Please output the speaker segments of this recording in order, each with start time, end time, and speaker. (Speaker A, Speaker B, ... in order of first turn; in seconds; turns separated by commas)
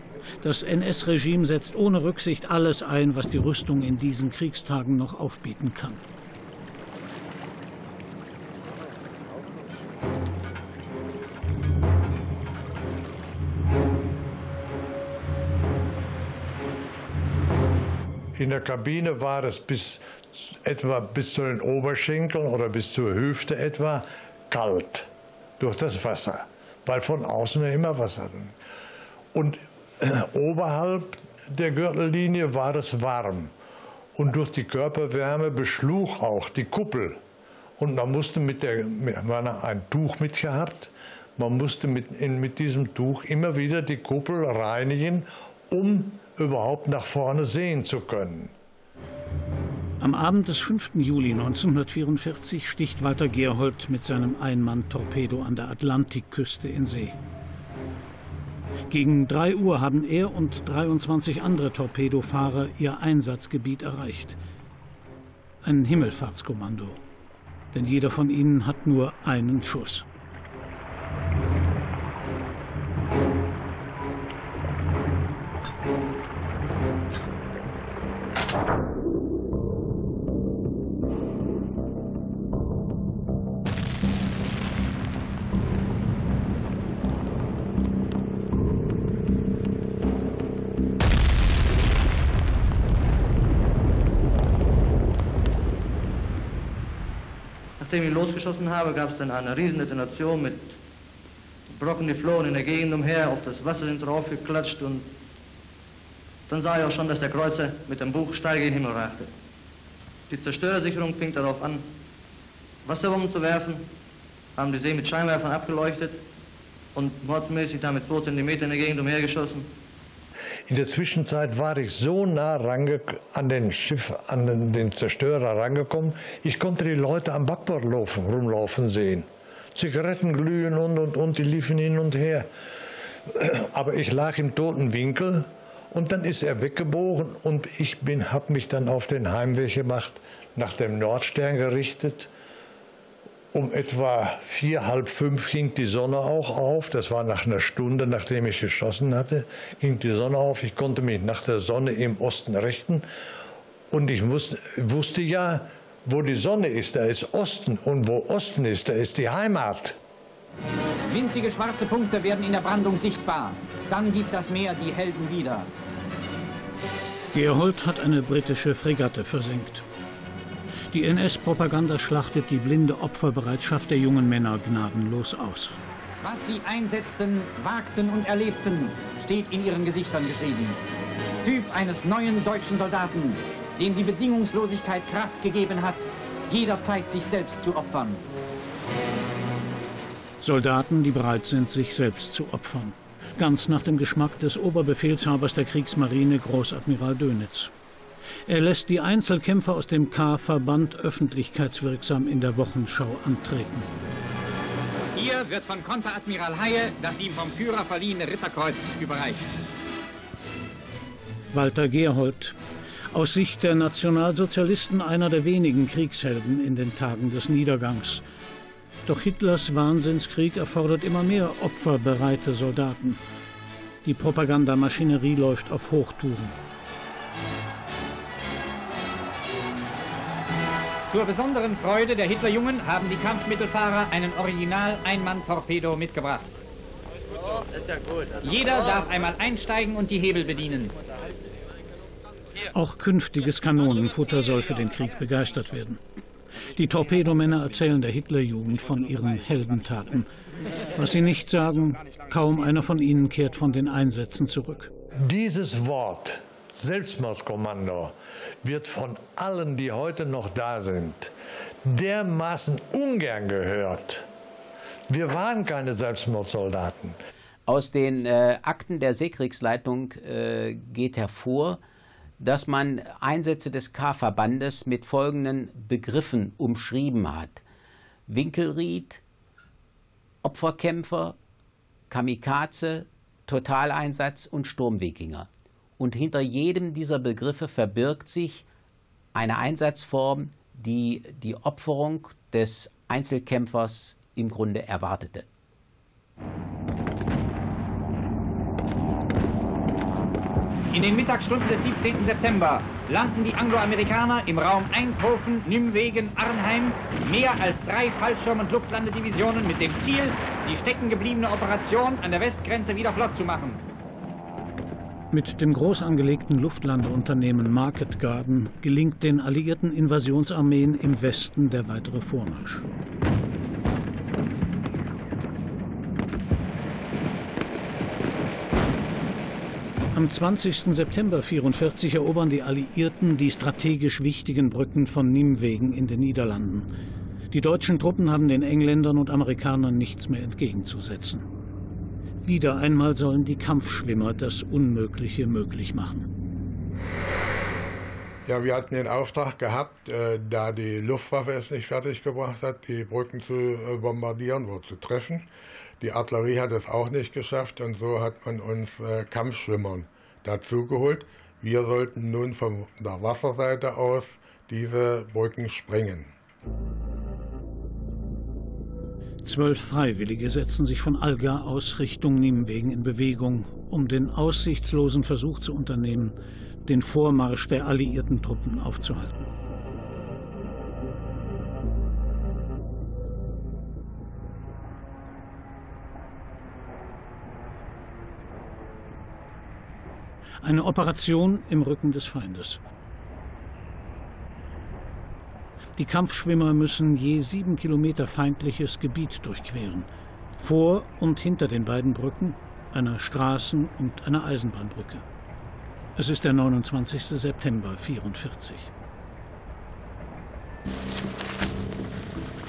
Speaker A: 0.4-6.0, Speaker B: 18.4-28.5, Speaker B: 29.3-33.5, Speaker B: 34.1-37.2, Speaker B: 37.8-48.5, Speaker A: 50.0-57.2, Speaker A: 58.9-64.4, Speaker A: 65.6-67.0, Speaker A: 67.7-70.1, Speaker C: 97.8-100.8, Speaker C: 101.7-105.1, Speaker C: 106.5-109.3, Speaker C: 110.3-111.8, Speaker C: 112.8-113.8, Speaker C: 114.6-116.2, Speaker C: 116.9-119.7, Speaker B: 120.7-132.5, Speaker B: 133.3-142.3, Speaker B: 143.5-153.1, Speaker B: 153.9-160.0, Speaker D: 161.1-165.7, Speaker A: 167.3-169.8, Speaker A: 170.9-175.8, Speaker D: 176.2-180.8, Speaker D: 181.4-188.2, Speaker A: 190.4-197.7, Speaker A: 198.4-203.9, Speaker D: 205.1-209.5, Speaker A: 211.5-212.6, Speaker A: 213.1-218.2, Speaker A: 219.1-223.2, Speaker A: 224.0-226.5, Speaker D: 231.1-236.5, Speaker D: 238.4-240.9, Speaker A: 242.7-246.0, Speaker A: 246.7-250.3, Speaker A: 250.9-254.9, Speaker B: 255.2-261.3, Speaker B: 261.8-264.2, Speaker B: 265.1-267.2, Speaker E: 267.7-271.8, Speaker E: 272.4-277.6, Speaker E: 278.3-279.2, Speaker E: 280.4-281.4, Speaker E: 282.1-288.6, Speaker E: 289.3-295.4, Speaker D: 300.9-313.8, Speaker A: 315.3-322.8, Speaker A: 330.1-336.9, Speaker A: 337.5-341.4, Speaker A: 342.4-346.3, Speaker F: 348.4-355.5, Speaker F: 356.0-366.3, Speaker A: 369.4-379.5, Speaker A: 390.6-392.8, Speaker A: 396.0-405.2, Speaker A: 406.1-408.9